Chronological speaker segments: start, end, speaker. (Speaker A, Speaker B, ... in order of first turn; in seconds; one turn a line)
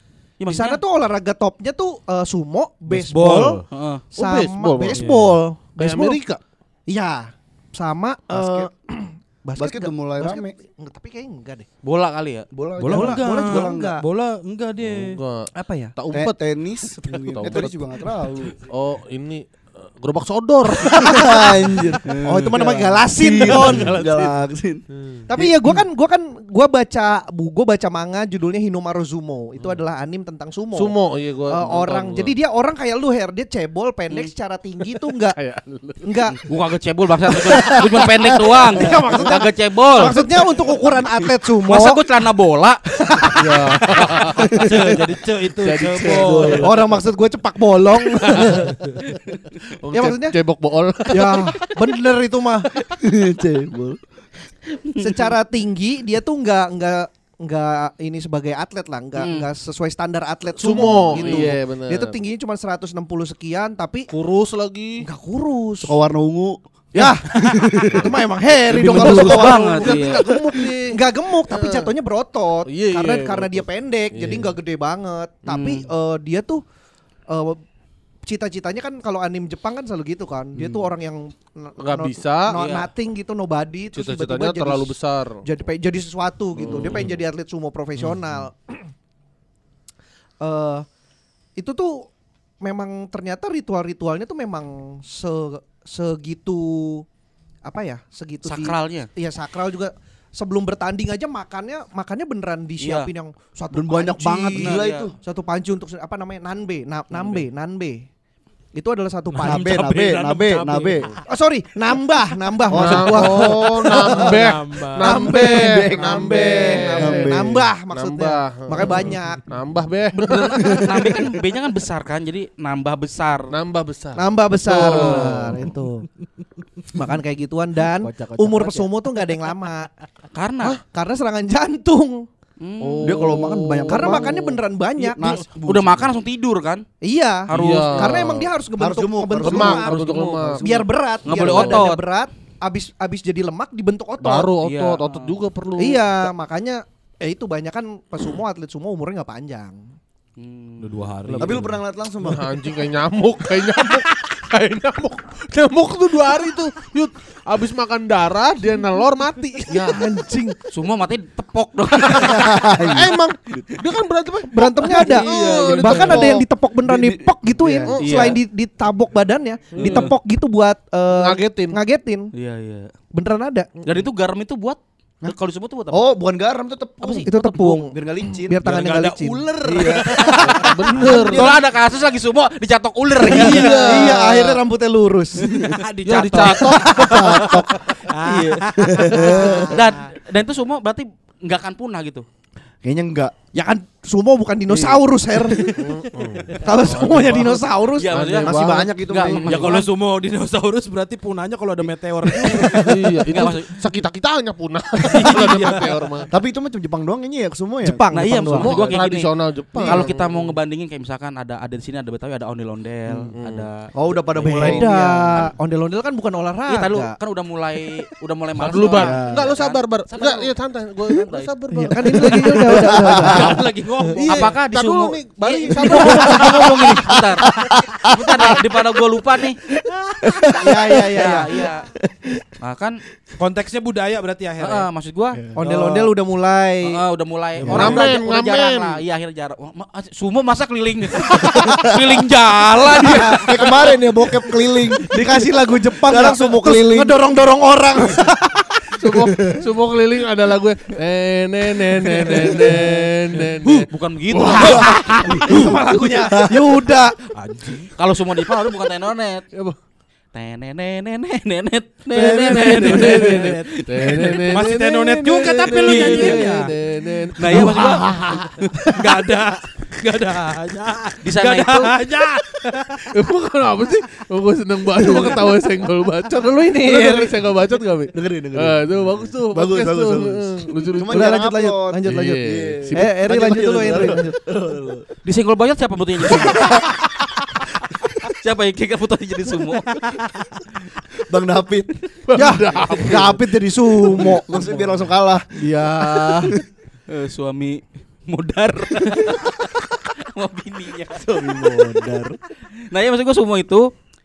Speaker A: 0.4-0.8
Speaker B: 0.5-6.2
Speaker C: 3.0-3.6
Speaker A: 3.7-4.1
Speaker D: 4.1-6.4
Speaker C: 4.9-5.4
Speaker B: 6.9-11.7
Speaker E: 8.3-8.7
Speaker E: 9.6-10.5
Speaker A: 11.8-12.5
Speaker E: 12.5-14.0
Speaker C: 12.8-15.2
Speaker B: 12.9-14.0
Speaker D: 14.8-18.0
Speaker B: 15.6-15.9
Speaker E: 16.1-18.6
Speaker D: 18.6-21.4
Speaker B: 20.7-24.1
Speaker E: 21.0-24.8
Speaker D: 23.4-24.3
Speaker D: 24.9-25.2
Speaker B: 25.3-30.9
Speaker E: 25.3-25.8
Speaker D: 30.7-32.4
Speaker B: 31.5-35.4
Speaker D: 34.8-36.1
Speaker B: 36.0-36.4
Speaker A: 36.2-40.2
Speaker E: 37.4-38.8
Speaker D: 38.7-40.8
Speaker B: 38.8-42.0
Speaker A: 41.6-43.4
Speaker B: 43.1-44.0
Speaker D: 43.4-44.5
Speaker C: 44.5-46.7
Speaker D: 45.6-47.0
Speaker E: 46.2-46.7
Speaker B: 46.6-48.8
Speaker D: 47.9-48.9
Speaker D: 49.7-51.7
Speaker B: 49.9-50.3
Speaker B: 51.1-52.7
Speaker E: 53.0-54.0
Speaker A: 54.8-55.3
Speaker B: 55.0-64.1
Speaker A: 59.1-59.5
Speaker D: 60.6-62.2
Speaker A: 60.8-61.5
Speaker D: 64.1-65.0
Speaker B: 65.0-66.0
Speaker E: 65.8-68.1
Speaker B: 66.9-70.2
Speaker E: 68.7-70.8
Speaker D: 68.7-71.9
Speaker A: 68.9-70.3
Speaker B: 70.9-76.6
Speaker D: 72.7-74.5
Speaker A: 75.5-75.9
Speaker B: 77.3-77.6
Speaker B: 78.2-88.8
Speaker D: 80.5-80.9
Speaker D: 81.8-82.5
Speaker A: 82.5-82.9
Speaker D: 83.9-85.4
Speaker D: 86.5-87.2
Speaker D: 88.0-88.4
Speaker B: 90.4-90.8
Speaker B: 91.5-92.1
Speaker B: 92.6-97.0
Speaker B: 97.6-108.0
Speaker A: 98.4-99.1
Speaker A: 102.8-103.1
Speaker E: 103.7-105.1
Speaker A: 104.5-105.1
Speaker B: 108.7-109.7
Speaker C: 109.3-111.0
Speaker E: 109.5-111.1
Speaker B: 111.3-114.3
Speaker E: 112.7-114.1
Speaker D: 112.7-120.8
Speaker C: 114.2-115.1
Speaker B: 115.0-119.5
Speaker E: 115.2-117.7
Speaker A: 120.2-123.5
Speaker E: 120.6-121.1
Speaker D: 123.5-125.7
Speaker B: 124.2-126.0
Speaker B: 126.9-129.9
Speaker E: 128.0-128.9
Speaker A: 130.3-130.8
Speaker B: 130.8-132.2
Speaker A: 132.6-133.4
Speaker D: 132.8-134.6
Speaker E: 133.0-134.4
Speaker B: 133.9-135.4
Speaker E: 135.0-136.1
Speaker A: 135.6-136.8
Speaker B: 137.0-144.5
Speaker A: 137.5-138.4
Speaker D: 137.5-138.5
Speaker E: 138.8-140.9
Speaker D: 139.4-140.8
Speaker A: 141.2-142.1
Speaker D: 141.4-141.8
Speaker D: 144.2-146.3
Speaker A: 144.6-145.3
Speaker B: 145.8-149.8
Speaker A: 150.4-151.0
Speaker C: 150.8-151.8
Speaker B: 151.3-151.7
Speaker E: 151.4-152.6
Speaker D: 152.2-160.2
Speaker B: 159.6-160.6
Speaker A: 160.7-162.9
Speaker E: 162.1-163.7
Speaker D: 162.2-166.4
Speaker B: 164.5-172.3
Speaker E: 164.8-168.0
Speaker C: 165.0-165.7
Speaker D: 168.0-168.4
Speaker A: 168.0-168.4
Speaker D: 169.7-170.1
Speaker A: 169.8-170.1
Speaker D: 171.1-171.8
Speaker A: 172.3-172.9
Speaker B: 173.1-173.7
Speaker A: 173.8-176.0
Speaker E: 175.9-178.6
Speaker A: 177.0-177.8
Speaker B: 177.2-181.6
Speaker C: 178.6-180.4
Speaker E: 179.6-180.3
Speaker D: 180.4-181.5
Speaker A: 180.5-183.9
Speaker D: 183.2-184.6
Speaker C: 183.3-184.1
Speaker B: 183.3-185.7
Speaker E: 185.5-185.8
Speaker C: 185.6-189.7
Speaker D: 186.0-187.1
Speaker A: 186.7-187.7
Speaker E: 186.8-187.7
Speaker A: 188.2-188.6
Speaker B: 188.3-189.8
Speaker E: 188.9-189.7
Speaker A: 189.5-192.2
Speaker E: 192.8-193.3
Speaker B: 193.5-195.9
Speaker E: 194.7-195.0
Speaker D: 195.8-198.7
Speaker B: 196.5-198.9
Speaker A: 197.9-199.8
Speaker E: 198.4-199.8
Speaker C: 199.4-202.9
Speaker B: 202.5-202.9
Speaker D: 202.7-206.3
Speaker A: 203.2-203.8
Speaker C: 205.1-206.1
Speaker E: 206.3-208.0
Speaker B: 207.8-208.9
Speaker A: 208.1-209.3
Speaker D: 208.5-210.6
Speaker E: 209.8-210.0
Speaker A: 209.8-215.5
Speaker D: 213.3-213.7
Speaker E: 213.9-215.1
Speaker B: 214.4-217.1
Speaker A: 216.7-220.5
Speaker D: 218.6-223.4
Speaker E: 219.0-219.5
Speaker A: 221.1-221.5
Speaker B: 221.7-224.2
Speaker E: 222.7-223.6
Speaker C: 223.1-224.5
Speaker D: 224.2-227.1
Speaker A: 224.3-229.6
Speaker B: 225.8-227.1
Speaker E: 226.2-228.8
Speaker E: 230.2-231.3
Speaker B: 230.5-231.7
Speaker A: 231.1-231.9
Speaker A: 232.6-233.0
Speaker C: 233.4-234.9
Speaker A: 234.6-235.4
Speaker B: 235.5-237.0
Speaker C: 235.6-236.1
Speaker A: 236.8-243.9
Speaker C: 237.6-238.1
Speaker D: 237.7-239.0
Speaker B: 241.6-241.9
Speaker E: 241.6-242.2
Speaker B: 242.7-243.5
Speaker E: 243.0-245.2
Speaker B: 245.1-248.9
Speaker E: 246.0-247.2
Speaker D: 249.0-255.3
Speaker E: 249.1-249.6
Speaker E: 252.2-252.9
Speaker B: 252.2-253.0
Speaker A: 253.8-256.3
Speaker E: 254.5-256.9
Speaker B: 254.6-257.8
Speaker C: 255.6-256.0
Speaker C: 257.3-257.9
Speaker A: 257.9-259.4
Speaker A: 260.3-264.4
Speaker E: 262.1-263.5
Speaker D: 262.2-268.5
Speaker B: 262.3-264.1
Speaker C: 264.4-266.7
Speaker A: 265.8-266.6
Speaker A: 267.4-269.1
Speaker C: 267.4-267.9
Speaker C: 268.9-273.0
Speaker A: 271.2-272.0
Speaker D: 273.1-281.4
Speaker B: 276.4-277.4
Speaker E: 278.1-285.1
Speaker B: 281.1-284.4
Speaker D: 282.0-283.2
Speaker D: 283.8-284.1
Speaker A: 285.2-286.9
Speaker E: 286.3-287.1
Speaker A: 288.3-290.3
Speaker E: 291.3-291.9
Speaker D: 292.3-293.4
Speaker B: 292.3-294.5
Speaker A: 292.8-293.2
Speaker E: 294.1-295.9
Speaker B: 295.6-296.5
Speaker D: 295.9-296.5
Speaker A: 297.1-301.3
Speaker E: 301.1-302.4
Speaker B: 301.3-302.3
Speaker A: 302.9-303.9